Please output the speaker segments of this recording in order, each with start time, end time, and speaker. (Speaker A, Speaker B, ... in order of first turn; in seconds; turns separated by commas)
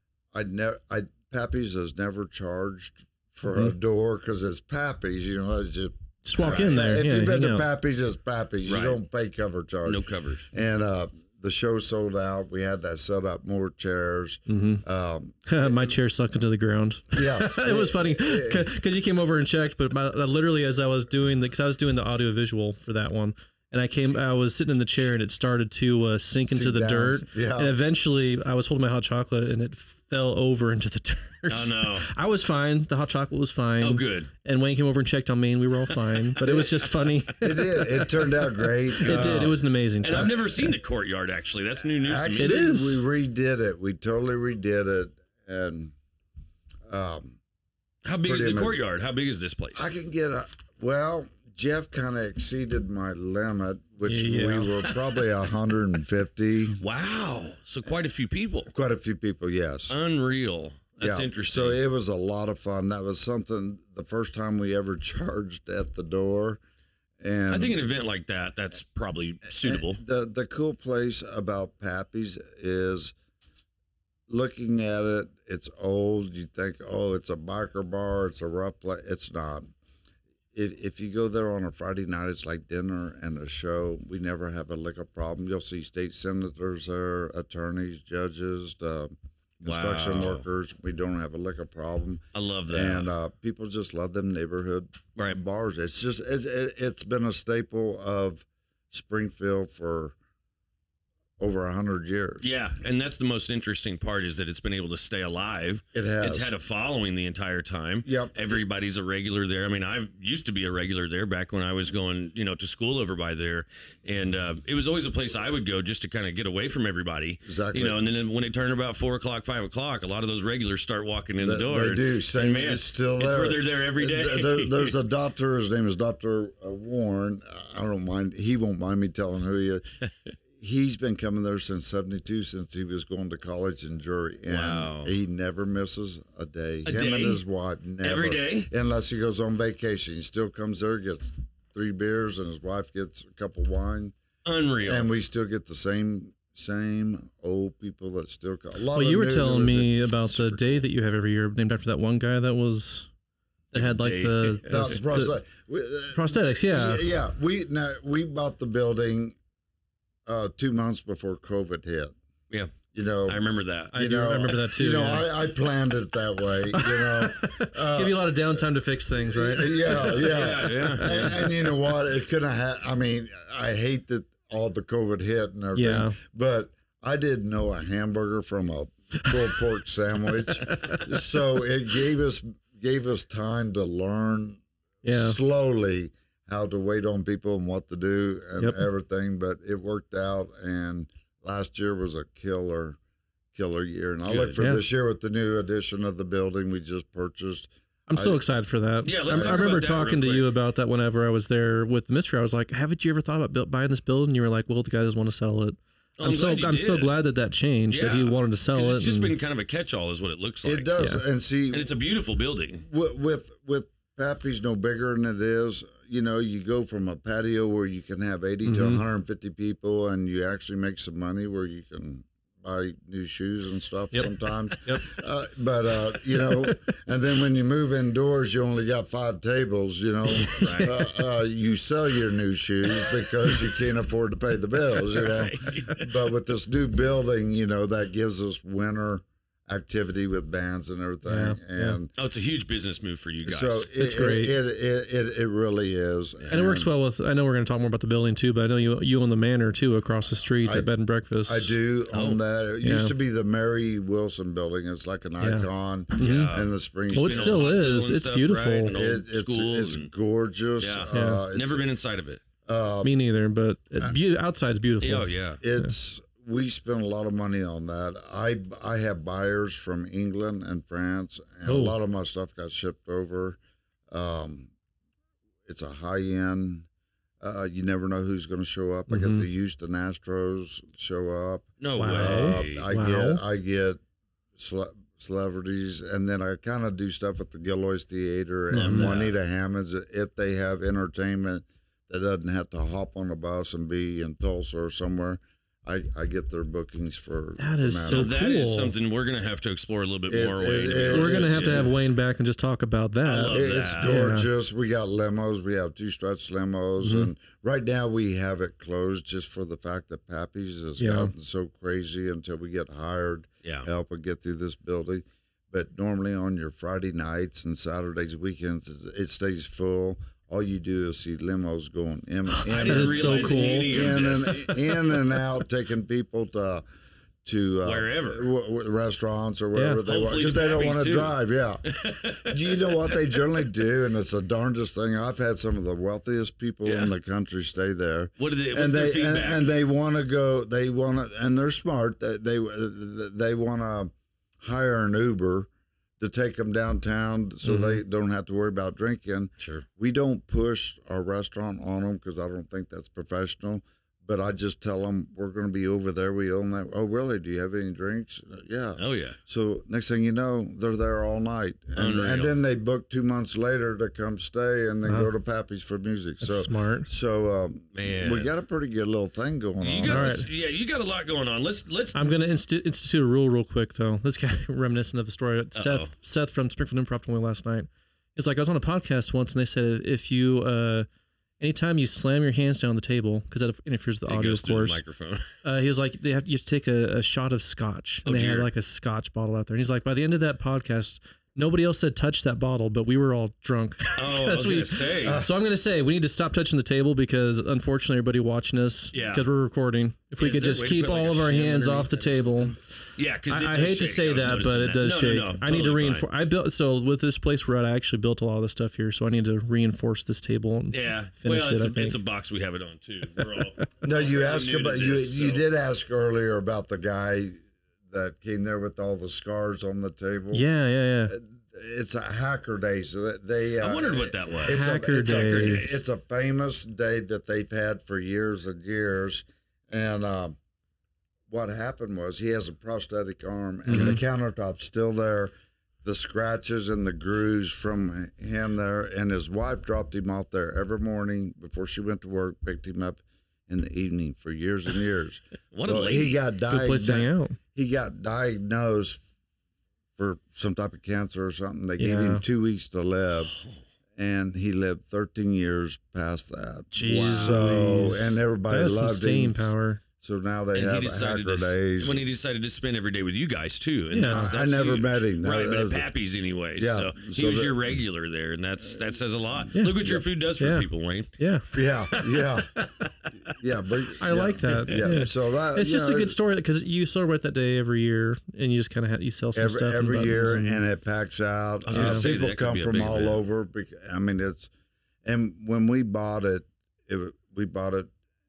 Speaker A: 0.3-15.9, Speaker B: 6.2-7.7, Speaker C: 8.7-9.0, Speaker C: 9.8-10.5, Speaker B: 14.5-14.8, Speaker B: 15.4-38.0, Speaker A: 17.1-18.7, Speaker A: 26.5-27.8, Speaker C: 31.5-32.1, Speaker C: 33.8-34.3, Speaker A: 36.4-40.5, Speaker B: 39.0-40.3, Speaker C: 39.0-39.4, Speaker C: 40.0-42.6, Speaker A: 42.0-45.9, Speaker B: 42.4-43.0, Speaker A: 46.9-47.4, Speaker C: 48.0-49.9, Speaker A: 48.1-48.8, Speaker A: 49.7-56.8, Speaker B: 54.1-54.7, Speaker C: 54.8-55.2, Speaker C: 56.8-58.7, Speaker A: 58.7-60.0, Speaker C: 59.9-61.8, Speaker A: 61.0-66.6, Speaker A: 67.2-67.8, Speaker C: 67.5-70.0, Speaker A: 69.6-73.1, Speaker A: 74.3-79.7, Speaker A: 80.5-100.1, Speaker C: 89.6-90.4, Speaker C: 92.3-93.1, Speaker A: 101.4-102.5, Speaker C: 102.4-124.9, Speaker A: 105.9-106.5, Speaker A: 108.0-108.6, Speaker A: 117.5-118.0, Speaker A: 121.4-129.9, Speaker A: 130.6-144.1, Speaker C: 134.5-135.1, Speaker C: 136.8-137.4, Speaker C: 138.0-138.7, Speaker C: 144.4-145.1, Speaker A: 144.8-150.8, Speaker B: 148.9-153.1, Speaker B: 153.7-155.3, Speaker C: 153.7-155.0, Speaker A: 154.6-159.4, Speaker B: 156.1-157.0, Speaker A: 160.2-162.1, Speaker C: 162.5-163.9, Speaker A: 162.9-168.4, Speaker B: 163.9-165.3, Speaker B: 166.7-171.6, Speaker A: 169.3-193.0, Speaker C: 170.0-171.4, Speaker B: 175.7-176.2, Speaker B: 180.7-181.0, Speaker B: 185.0-185.4, Speaker B: 188.6-188.8, Speaker A: 193.5-198.4, Speaker C: 194.2-194.6, Speaker B: 194.6-194.8, Speaker B: 198.1-209.3, Speaker C: 199.0-200.5, Speaker A: 199.3-199.6, Speaker C: 206.2-207.1, Speaker C: 207.9-210.9, Speaker A: 210.6-211.9, Speaker C: 211.7-212.8, Speaker A: 212.9-242.1, Speaker B: 218.6-219.0, Speaker B: 224.1-225.1, Speaker B: 226.4-226.8, Speaker B: 230.4-230.9, Speaker C: 230.5-230.9, Speaker C: 235.1-236.1, Speaker B: 241.2-242.0, Speaker C: 242.2-243.9, Speaker A: 243.4-246.9, Speaker B: 244.0-244.5, Speaker C: 246.4-246.7, Speaker B: 246.5-251.7, Speaker A: 250.6-250.9, Speaker A: 251.4-257.7, Speaker C: 252.1-252.4, Speaker B: 252.8-253.1, Speaker B: 255.4-256.5, Speaker C: 256.2-260.1, Speaker B: 257.1-258.9, Speaker A: 258.9-261.9, Speaker C: 260.8-262.4, Speaker B: 261.1-261.4, Speaker A: 262.6-263.1, Speaker B: 263.0-265.9, Speaker C: 265.0-265.6, Speaker A: 265.6-273.6, Speaker B: 271.6-271.9, Speaker A: 274.1-274.7, Speaker A: 275.6-276.9, Speaker A: 277.4-284.0, Speaker B: 279.1-279.4, Speaker C: 281.8-282.9, Speaker B: 281.9-283.4, Speaker A: 284.6-298.3, Speaker C: 288.7-289.3, Speaker B: 288.7-289.2, Speaker B: 297.6-298.9, Speaker C: 298.1-301.9, Speaker A: 300.3-301.9, Speaker B: 301.1-304.5, Speaker C: 303.2-304.2, Speaker A: 303.5-326.8, Speaker B: 307.0-307.3, Speaker B: 311.0-311.3, Speaker C: 322.5-325.3, Speaker B: 322.8-324.2, Speaker A: 327.4-370.5, Speaker C: 327.8-328.4, Speaker B: 329.7-330.0, Speaker C: 330.1-333.1, Speaker C: 336.8-337.1, Speaker C: 338.4-339.6, Speaker B: 347.6-348.0, Speaker C: 349.6-349.8, Speaker C: 359.0-359.4, Speaker C: 361.9-362.6, Speaker B: 365.0-365.3, Speaker B: 366.4-367.1, Speaker C: 367.9-368.5, Speaker C: 369.8-372.2, Speaker B: 370.1-370.5, Speaker B: 372.1-381.1, Speaker C: 375.7-376.1, Speaker B: 381.6-385.0, Speaker C: 384.3-385.4, Speaker B: 385.6-402.8, Speaker C: 388.2-388.7, Speaker C: 394.1-395.4, Speaker A: 395.2-395.5, Speaker C: 399.1-399.4, Speaker C: 400.4-402.5, Speaker C: 403.1-406.3, Speaker B: 403.5-412.2, Speaker C: 410.9-415.6, Speaker A: 414.0-420.7, Speaker B: 420.5-421.4, Speaker A: 421.3-430.6, Speaker C: 423.8-426.0, Speaker B: 424.7-425.8, Speaker A: 431.5-435.5, Speaker B: 433.9-434.2, Speaker A: 436.0-449.2, Speaker C: 445.7-446.4, Speaker B: 446.7-447.6, Speaker A: 450.2-453.6, Speaker B: 452.0-452.4, Speaker A: 454.1-459.7, Speaker B: 456.9-460.0, Speaker C: 457.1-457.9, Speaker A: 460.2-462.2, Speaker C: 460.7-471.3, Speaker B: 464.1-464.5, Speaker A: 464.3-466.1, Speaker A: 466.8-467.8, Speaker B: 469.7-470.1, Speaker A: 469.9-470.2, Speaker B: 470.6-470.9, Speaker B: 471.4-473.0, Speaker A: 471.7-472.7, Speaker A: 473.5-476.4, Speaker B: 474.2-480.8, Speaker A: 479.5-484.7, Speaker C: 481.9-483.4, Speaker B: 481.9-482.3, Speaker A: 485.2-488.1